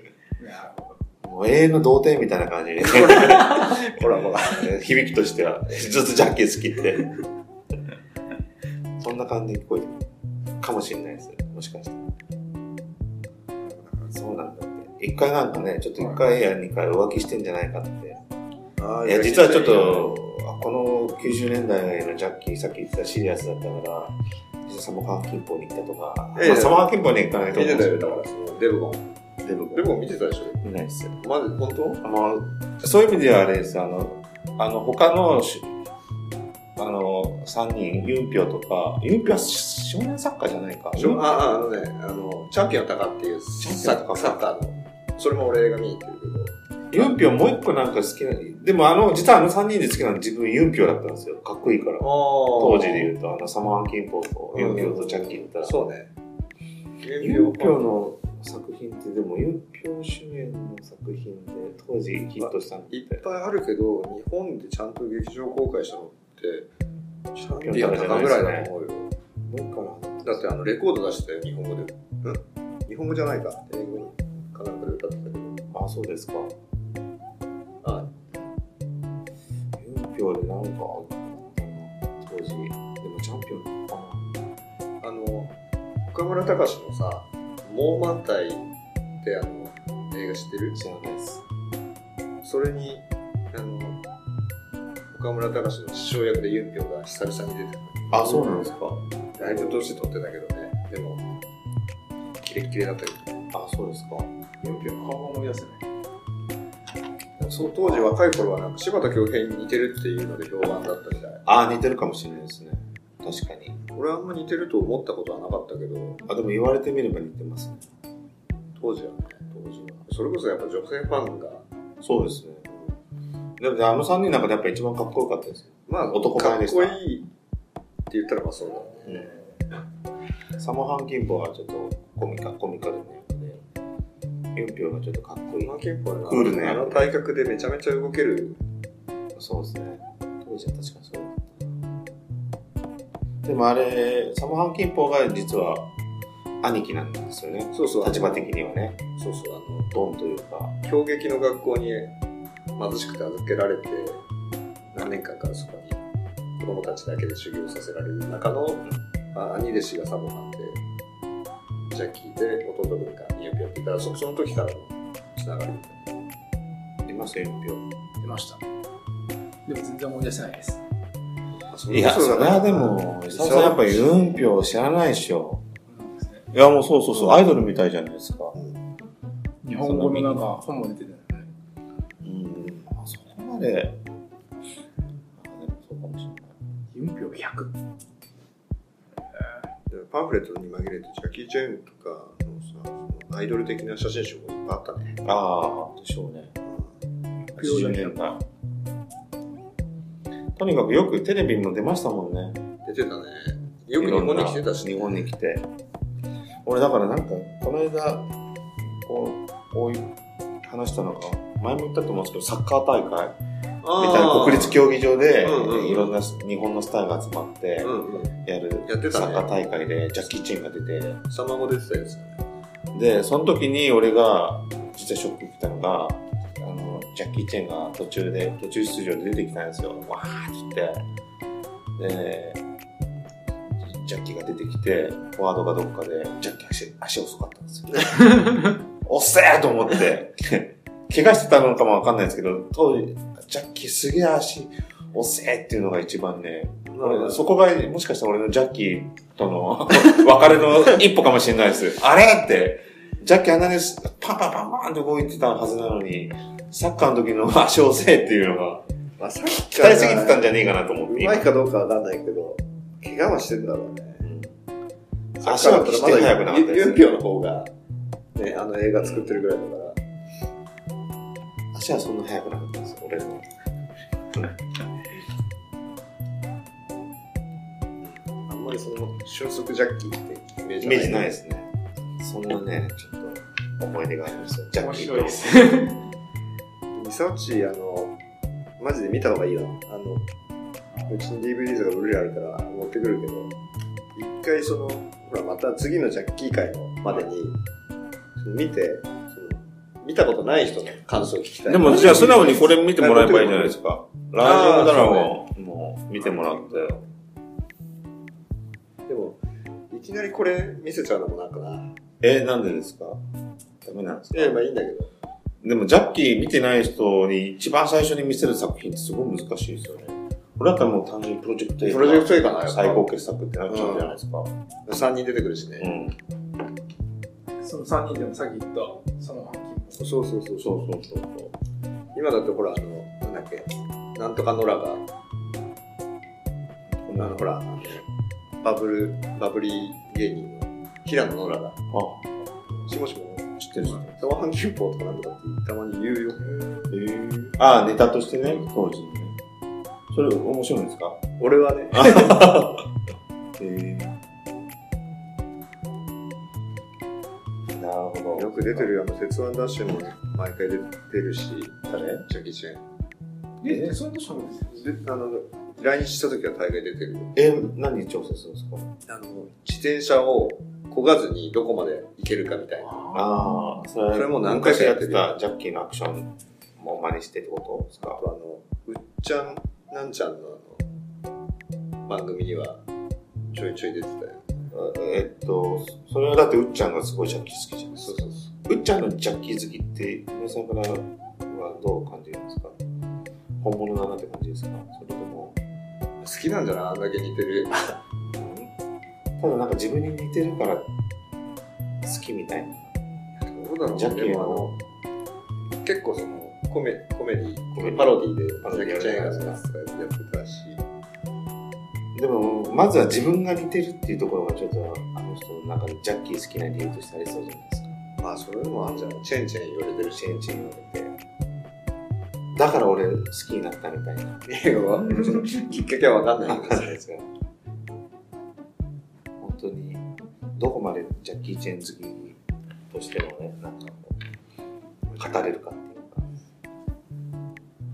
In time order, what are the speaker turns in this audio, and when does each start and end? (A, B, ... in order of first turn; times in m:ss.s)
0:00.4-0:01.0 A
0:01.2-0:07.1 B
0:02.8-0:04.8 C
0:09.0-0:10.1 B
0:10.6-0:12.1 B
0:13.6-0:14.1 C
0:14.1-0:18.2 B
0:18.8-0:20.1 C
0:19.0-0:28.2 B
0:26.4-0:26.8 C
0:27.5-0:29.1 C
0:29.4-0:29.9 B
0:29.7-0:30.6 C
0:30.6-0:31.2 B
0:31.2-0:32.0 C
0:32.0-0:35.7 B
0:36.8-0:41.4 B
0:41.0-0:47.1 C
0:43.6-0:44.4 B
0:46.9-0:55.8 B
0:52.0-0:53.1 C
0:54.5-0:56.1 C
0:57.0-0:57.9 C
0:57.2-1:03.2 B
1:02.4-1:06.7 C
1:07.4-1:09.1 C
1:07.6-1:08.7 B
1:09.5-1:10.4 B
1:10.2-1:15.6 C
1:15.7-1:16.5 B
1:17.8-1:18.1 C
1:19.8-1:24.2 B
1:25.0-1:25.5 C
1:26.1-1:28.6 C
1:29.2-1:30.8 C
1:30.8-1:31.4 B
1:32.4-1:34.0 C
1:35.1-1:38.8 C
1:38.1-1:40.0 B
1:39.4-1:41.2 C
1:42.4-1:43.4 C
1:43.5-1:44.3 B
1:44.6-1:45.8 A
1:47.4-1:48.2 B
1:47.5-1:51.4 C
1:51.5-1:53.8 B
1:53.8-1:56.2 C
1:56.2-1:57.8 B
1:58.8-1:59.4 C
1:59.5-2:00.0 B
2:00.1-2:01.6 C
2:02.0-2:02.6 B
2:03.6-2:07.0 B
2:05.9-2:07.3 C
2:08.1-2:09.4 C
2:09.1-2:09.4 B
2:10.6-2:13.6 B
2:14.5-2:17.1 B
2:15.6-2:18.6 C
2:19.4-2:21.6 B
2:23.4-2:25.9 B
2:26.6-2:29.0 B
2:27.7-2:28.5 C
2:29.2-2:29.9 C
2:29.9-2:30.8 B
2:30.8-2:32.1 C
2:32.8-2:34.2 C
2:34.9-2:36.0 C
2:36.6-2:40.8 C
2:41.9-2:46.2 C
2:47.0-2:47.8 B
2:48.2-2:48.6 A
2:49.6-2:50.8 A
2:51.7-2:54.4 C
2:51.9-2:55.6 B
2:55.9-2:56.5 A
2:56.5-2:58.6 B
2:59.6-3:01.5 A
2:59.8-3:00.4 B
3:02.2-3:04.0 B
3:05.4-3:06.5 B
3:06.9-3:07.7 A
3:09.9-3:15.2 C
3:15.2-3:16.5 B
3:16.6-3:16.9 C
3:17.5-3:18.2 A
3:17.5-3:18.4 B
3:20.6-3:22.6 B
3:22.8-3:25.2 C
3:24.0-3:25.7 B
3:26.6-3:28.2 B
3:28.8-3:30.1 B
3:30.6-3:33.4 B
3:33.8-3:34.8 C
3:34.0-3:41.2 B
3:35.4-3:36.1 C
3:37.8-3:38.3 C
3:38.9-3:39.5 C
3:41.3-3:42.4 C
3:42.9-3:51.0 B
3:52.0-3:52.6 B
3:53.8-4:18.9 B
4:06.9-4:07.4 C
4:19.2-4:20.5 C
4:19.6-4:21.5 B
4:21.1-4:24.2 C
4:24.2-4:24.5 B
4:25.4-4:27.0 B
4:25.4-4:27.7 C
4:28.4-4:30.0 C
4:29.0-4:29.4 B
4:31.7-4:33.5 B
4:38.1-4:41.3 C
4:40.8-4:45.6 B
4:44.8-4:46.0 A
4:46.9-4:48.2 C
4:48.8-4:50.2 C
4:51.1-4:53.5 C
4:54.2-4:57.6 C
4:58.4-5:03.8 C
5:01.7-5:07.0 B
5:04.4-5:05.4 C
5:06.2-5:07.0 C
5:09.1-5:09.4 C
5:09.9-5:11.9 C
5:12.2-5:13.2 B
5:13.8-5:14.6 B
5:14.3-5:15.1 C
5:15.6-5:24.5 B
5:21.8-5:23.1 C
5:23.7-5:24.2 C
5:24.8-5:25.9 C
5:25.8-5:26.2 B
5:27.6-5:30.1 A
5:30.0-5:30.8 C
5:30.6-5:31.5 B
5:32.2-5:35.0 C
5:36.9-5:37.5 B
5:37.2-5:38.0 C
5:38.6-5:41.8 C
5:41.9-5:42.5 B
5:42.7-5:46.8 C
5:43.6-5:44.3 B
5:46.9-5:49.4 B
5:50.1-5:51.2 B
5:51.4-5:52.5 C
5:51.9-5:52.8 B
5:53.6-5:54.2 B
5:57.7-5:58.9 B
5:58.3-6:02.8 C
6:01.9-6:02.2 B
6:03.6-6:04.9 A
6:03.6-6:04.0 B
6:04.8-6:07.3 C
6:07.3-6:08.9 B
6:09.0-6:13.1 C
6:12.9-6:13.7 A
6:13.1-6:18.2 B
6:14.1-6:15.3 C
6:18.0-6:20.8 C
6:22.0-6:22.8 C
6:23.5-6:24.5 C
6:24.7-6:32.8 B
6:28.0-6:28.5 C
6:33.6-6:35.6 B
6:36.2-6:38.0 C
6:38.4-6:38.7 B
6:39.4-6:40.9 B
6:42.0-6:42.9 B
6:43.4-6:44.8 C
6:44.0-6:44.8 B
6:45.8-6:50.8 C
6:47.8-6:49.6 B
6:52.1-6:57.9 B
6:58.2-7:00.4 C
7:00.2-7:01.2 B
7:02.5-7:04.4 B
7:04.4-7:07.0 C
7:06.5-7:07.3 B
7:09.4-7:12.4 B
7:12.9-7:14.2 B
7:15.1-7:15.5 C
7:15.2-7:16.4 B